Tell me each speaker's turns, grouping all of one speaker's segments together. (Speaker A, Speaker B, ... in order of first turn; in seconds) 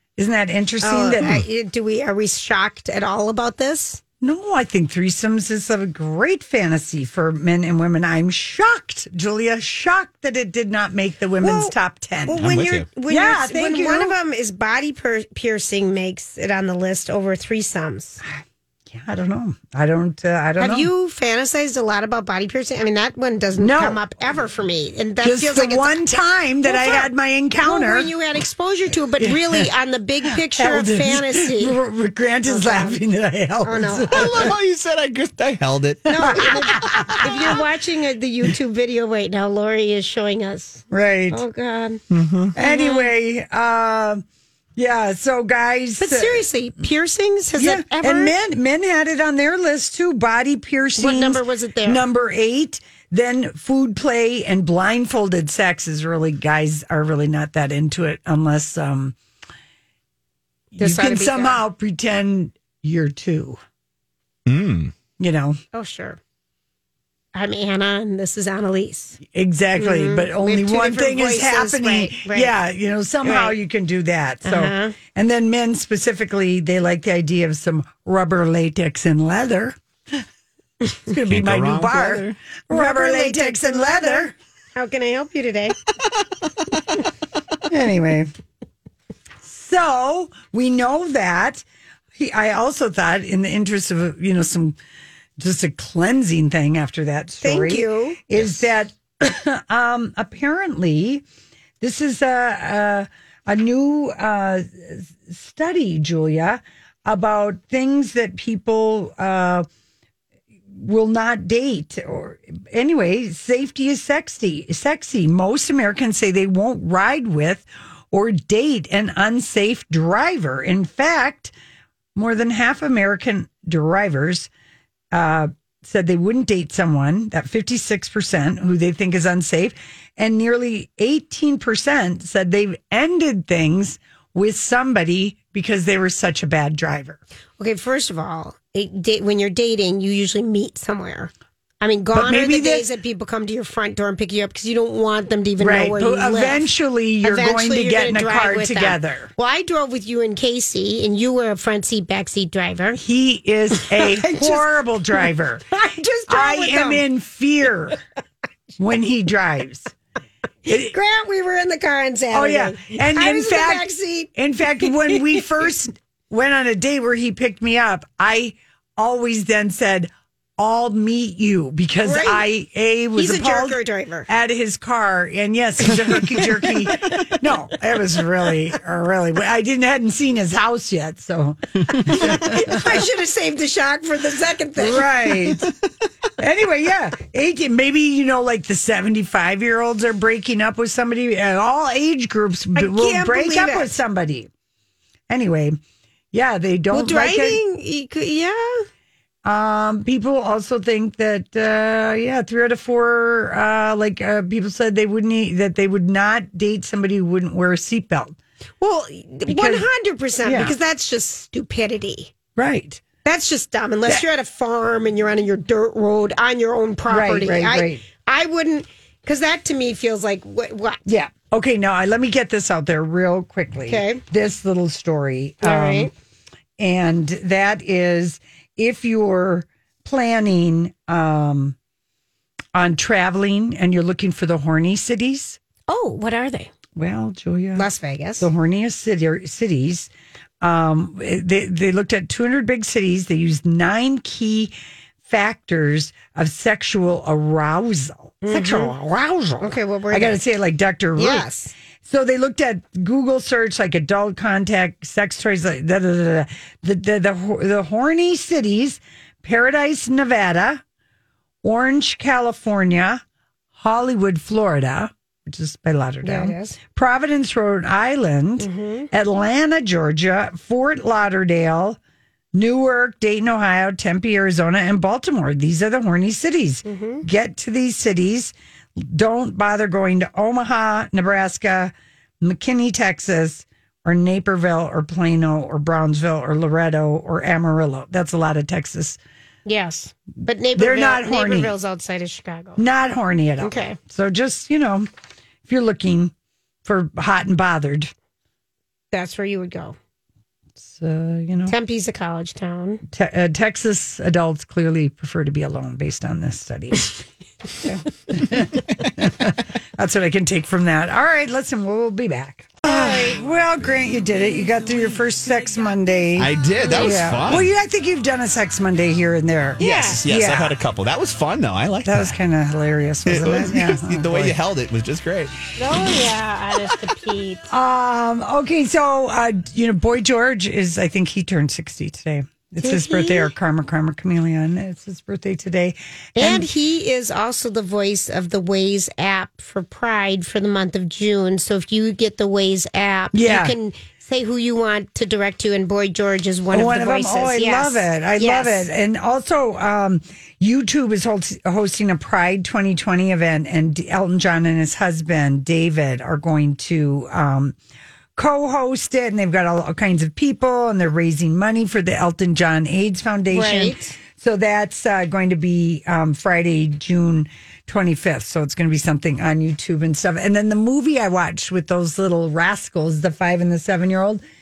Speaker A: 0.2-1.4, 4.2-12.5, 13.1-14.2, 18.2-20.9, 23.6-24.0, 25.2-28.1, 29.2-29.7, 30.4-34.5, 36.2-37.5, 40.9-41.4, 42.5-44.2, 44.8-46.5, 47.6-59.2, 60.7-63.6, 65.2-65.6, 69.3-80.2, 81.1-84.3, 87.7-88.3, 89.4-91.7, 92.2-94.8, 95.4-101.2, 101.8-109.7, 110.7-121.5, 122.2-124.5, 125.1-137.2, 142.1-142.9, 145.6-149.3, 153.0-155.7, 156.3-158.0, 158.8-159.9, 160.7-160.9, 162.3-182.5, 184.8-185.7, 186.4-194.5, 195.3-195.8, 196.3-197.6, 199.4-208.4, 209.5-209.9, 210.4-210.8, 212.6-213.0, 217.1-218.0, 221.1-226.1, 226.8-231.8, 232.7-235.6, 236.9-237.9, 238.4-240.1, 240.6-244.7, 245.2-251.5, 252.0-260.8, 261.6-263.2, 263.7-272.0, 272.5-289.2, 290.8-291.7, 292.8-295.1, 295.7-296.3, 296.9-298.1, 300.8-301.7, 303.1-307.2, 308.3-320.8, 322.1-324.6, 327.7-336.7, 343.3-343.8, 346.7-357.8, 358.4-374.4
Speaker B: 0.8-4.0, 11.4-11.8, 12.3-18.2, 20.6-26.0, 26.6-27.1, 27.6-31.8, 32.5-33.0, 33.6-34.5, 36.1-42.0, 42.6-43.1, 46.0-48.3, 51.0-52.0, 60.8-61.6, 65.7-66.2, 67.3-69.2, 69.8-72.5, 73.2-73.5, 74.4-75.0, 82.7-85.8, 97.4-98.2, 137.6-146.7, 147.2-153.0, 153.9-154.7, 155.7-157.0, 160.7-164.3, 172.0-172.4, 173.2-174.3, 182.1-185.1, 192.8-193.9, 196.9-198.9, 208.8-212.3, 213.2-221.0, 223.9-224.2, 225.6-226.1, 235.9-236.7, 237.8-238.5, 248.4-248.9, 249.6-250.4, 251.2-251.7, 266.2-266.8, 268.6-269.1, 276.9-277.2, 289.7-292.8, 293.6-294.0, 299.1-300.0, 301.7-303.0, 312.8-313.4, 316.8-317.4, 319.8-320.2, 325.8-327.7, 332.8-333.5, 336.4-348.9, 363.5-364.2
Speaker C: 12.4-12.9, 34.1-37.6, 42.1-42.5, 64.5-64.9, 81.3-82.4, 316.4-317.7, 319.8-322.4, 323.3-325.5